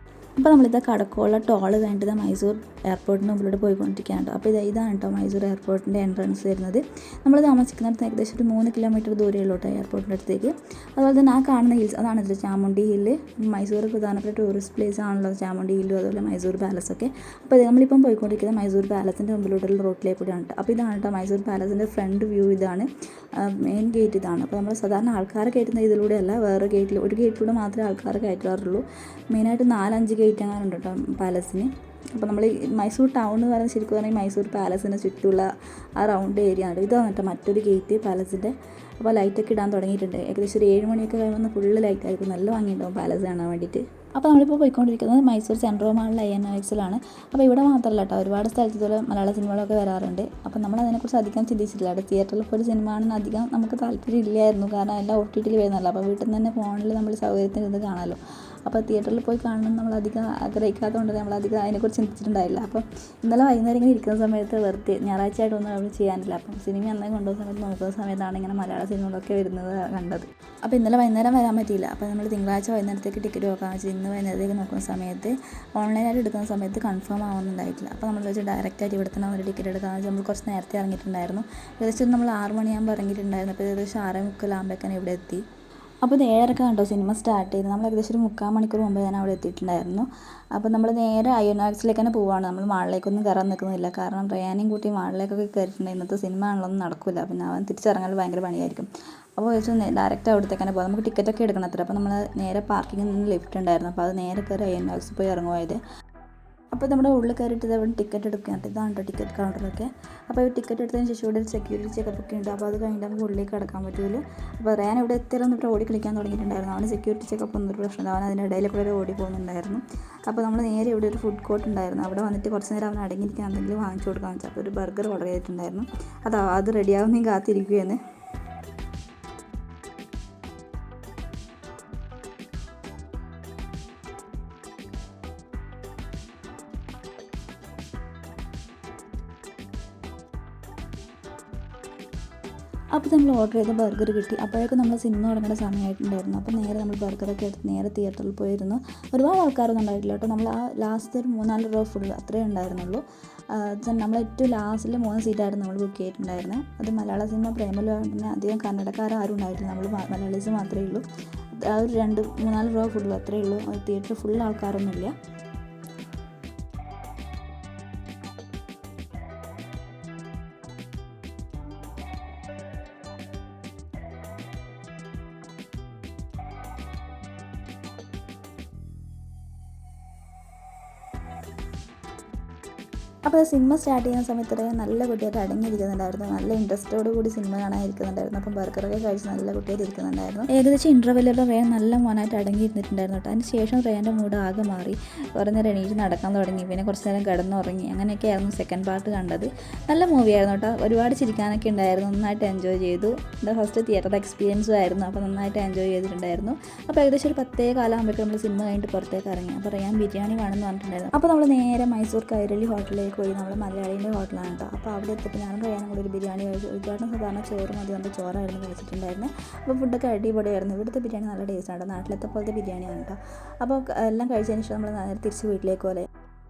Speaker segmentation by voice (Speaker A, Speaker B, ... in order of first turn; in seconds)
Speaker A: 0.4-85.4, 86.0-105.8, 106.7-128.0, 142.9-165.1, 183.2-226.1